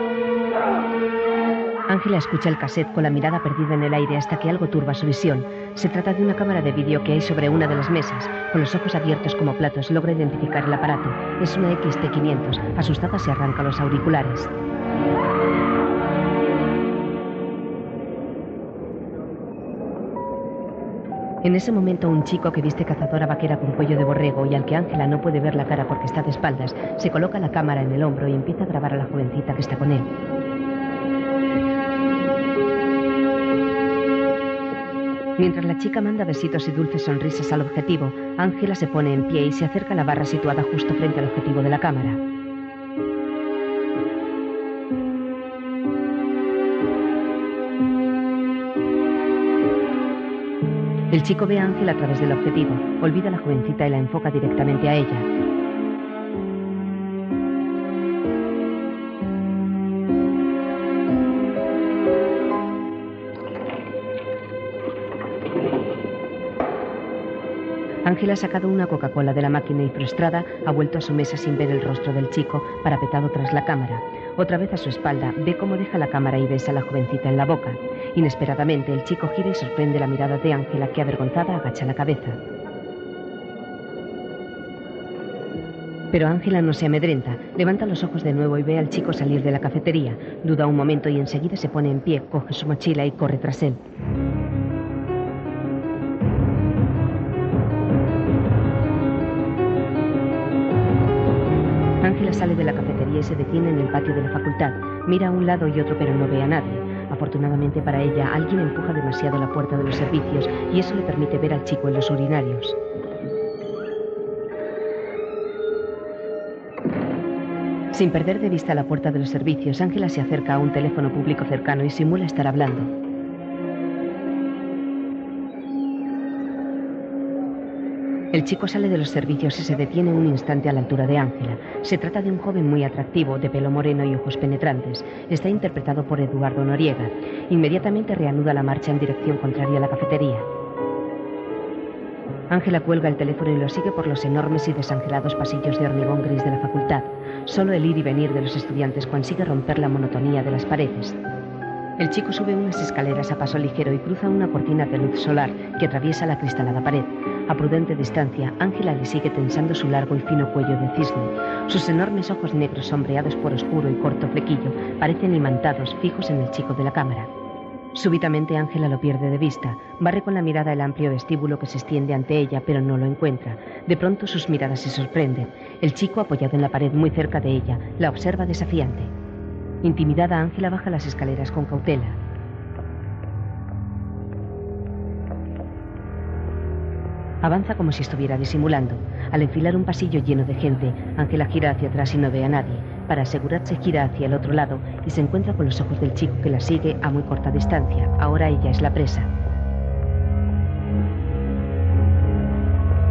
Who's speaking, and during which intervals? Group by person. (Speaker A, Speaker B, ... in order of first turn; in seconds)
Speaker A: 1.9-14.5, 21.4-30.1, 35.4-42.2, 51.1-55.3, 68.0-82.4, 86.1-93.8, 102.0-112.8, 117.9-122.9, 128.3-140.5, 142.5-151.2, 152.0-167.3, 167.9-179.1, 179.8-182.2, 187.4-199.3